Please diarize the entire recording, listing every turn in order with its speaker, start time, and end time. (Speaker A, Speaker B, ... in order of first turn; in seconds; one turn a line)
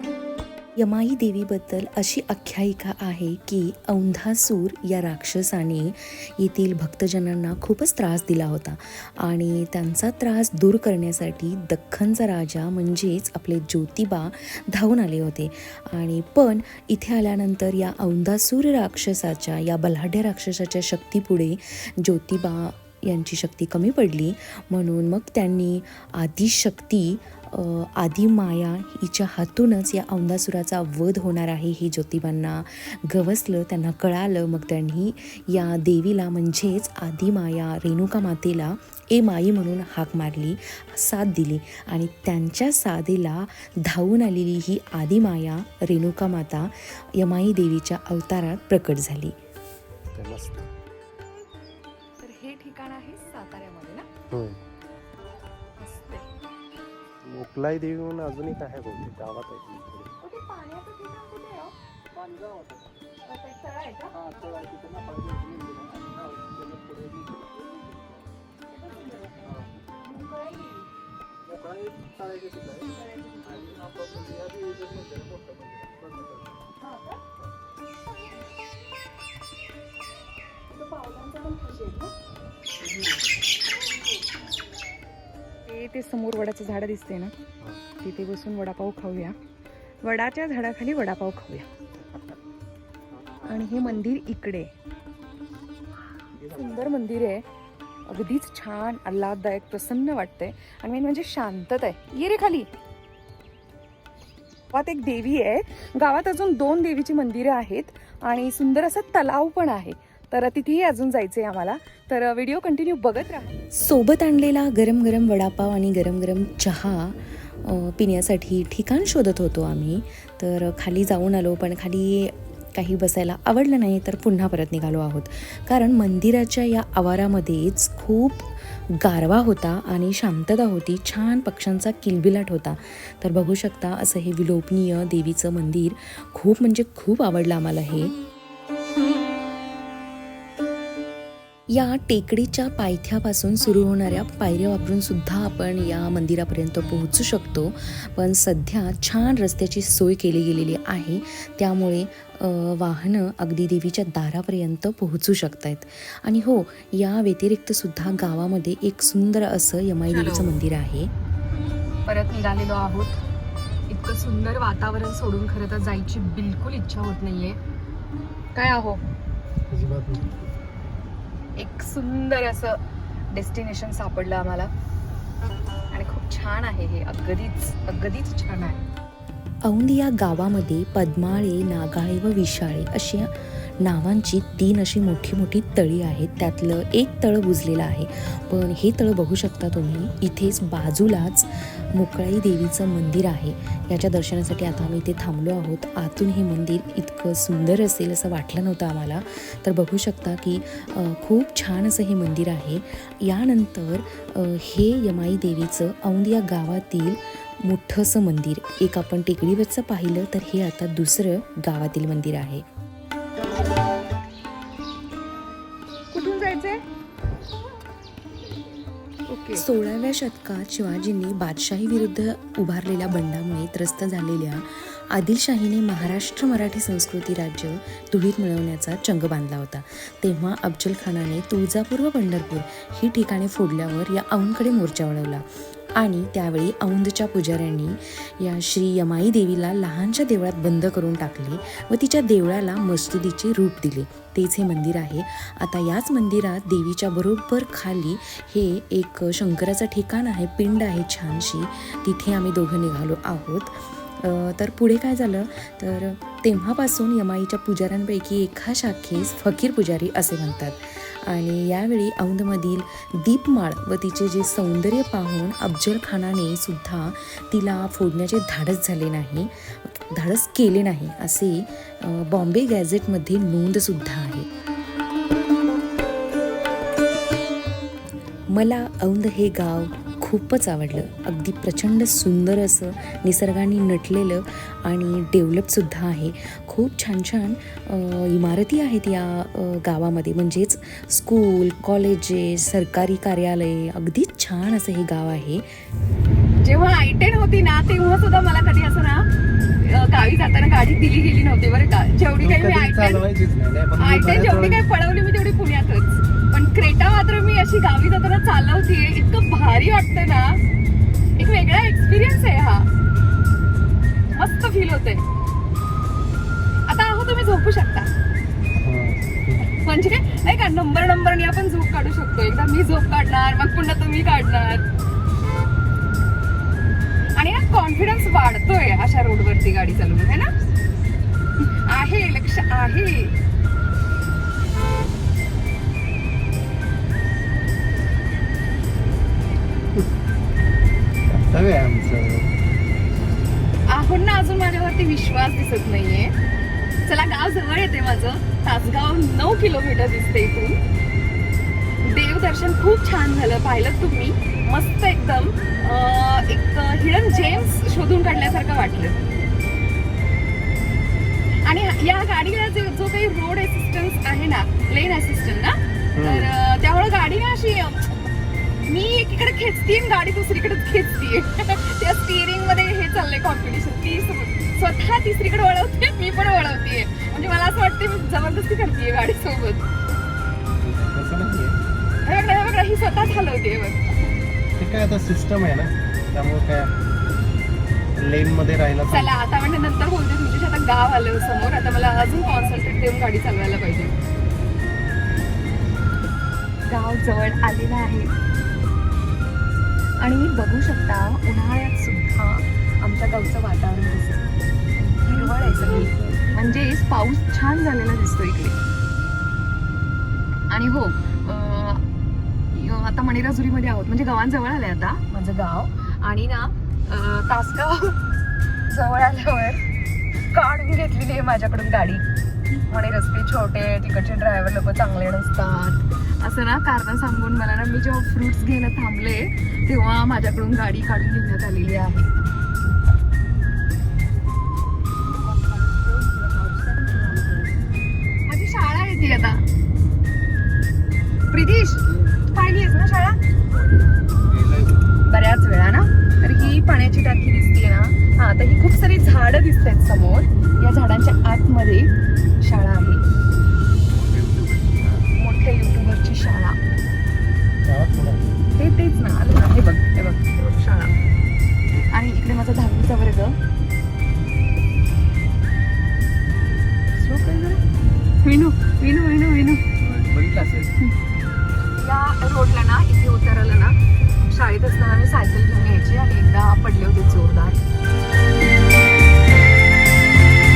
Speaker A: 0.8-49.4
Speaker B: 50.1-50.7
Speaker C: 52.2-54.1
Speaker B: 54.3-54.6
Speaker C: 55.8-56.3
Speaker B: 57.2-60.1
Speaker C: 60.2-61.8
Speaker B: 62.1-62.8
Speaker C: 63.2-64.1
Speaker B: 64.1-68.1
Speaker C: 68.7-69.5
Speaker C: 70.0-70.8
Speaker B: 71.5-72.8
Speaker C: 73.0-73.7
Speaker B: 73.5-76.4
Speaker C: 76.8-77.2
Speaker C: 80.7-82.1
Speaker C: 85.7-87.3
Speaker C: 88.0-89.3
Speaker C: 90.0-91.7
Speaker C: 93.5-94.7
Speaker B: 96.3-96.7
Speaker C: 96.5-97.4
Speaker C: 98.1-102.7
Speaker C: 104.7-113.5
Speaker A: 113.8-138.1
Speaker A: 141.7-161.1
Speaker C: 160.1-160.5
Speaker C: 162.1-163.2
Speaker C: 163.9-167.6
Speaker C: 168.5-169.0
Speaker B: 169.7-170.4
Speaker C: 171.6-172.8
Speaker C: 173.3-174.7
Speaker C: 175.9-178.8
Speaker A: 179.6-212.6
Speaker C: 216.1-216.8
Speaker C: 219.3-219.6
Speaker A: 219.5-235.4
Speaker A: 236.0-274.5
Speaker A: 278.5-295.6
Speaker C: 296.6-299.2
Speaker C: 299.8-303.2
Speaker B: 302.4-304.8
Speaker C: 304.0-310.6
Speaker C: 311.4-312.9
Speaker C: 314.3-315.2
Speaker C: 316.9-318.1
Speaker B: 318.8-319.6
Speaker C: 319.7-324.8
Speaker C: 327.3-330.5
Speaker C: 331.9-333.3
Speaker B: 341.3-342.5
Speaker C: 343.9-346.3
Speaker C: 347.0-350.8
Speaker C: 352.0-359.2
Speaker C: 361.6-368.1
Speaker B: 366.1-366.4
Speaker C: 368.9-379.9
Speaker B: 380.8-381.8
Speaker C: 382.2-384.0
Speaker B: 384.8-386.9
Speaker B: 388.1-389.3
Speaker C: 389.1-394.1
Speaker C: 396.9-398.3
Speaker C: 400.2-404.5
Speaker C: 405.0-408.8
Speaker C: 410.7-412.0
Speaker C: 412.7-418.1
Speaker C: 418.9-419.8
Speaker C: 420.5-432.3
Speaker C: 438.5-439.6
Speaker C: 441.5-443.4
Speaker B: 444.5-445.0
Speaker C: 445.3-453.2
Speaker B: 454.1-455.0
Speaker C: 455.0-456.8
Speaker B: 457.9-458.4
Speaker C: 458.8-461.1
Speaker C: 462.1-463.6
Speaker C: 467.2-467.8
Speaker C: 468.4-469.8
Speaker B: 470.0-470.9
Speaker C: 472.0-477.8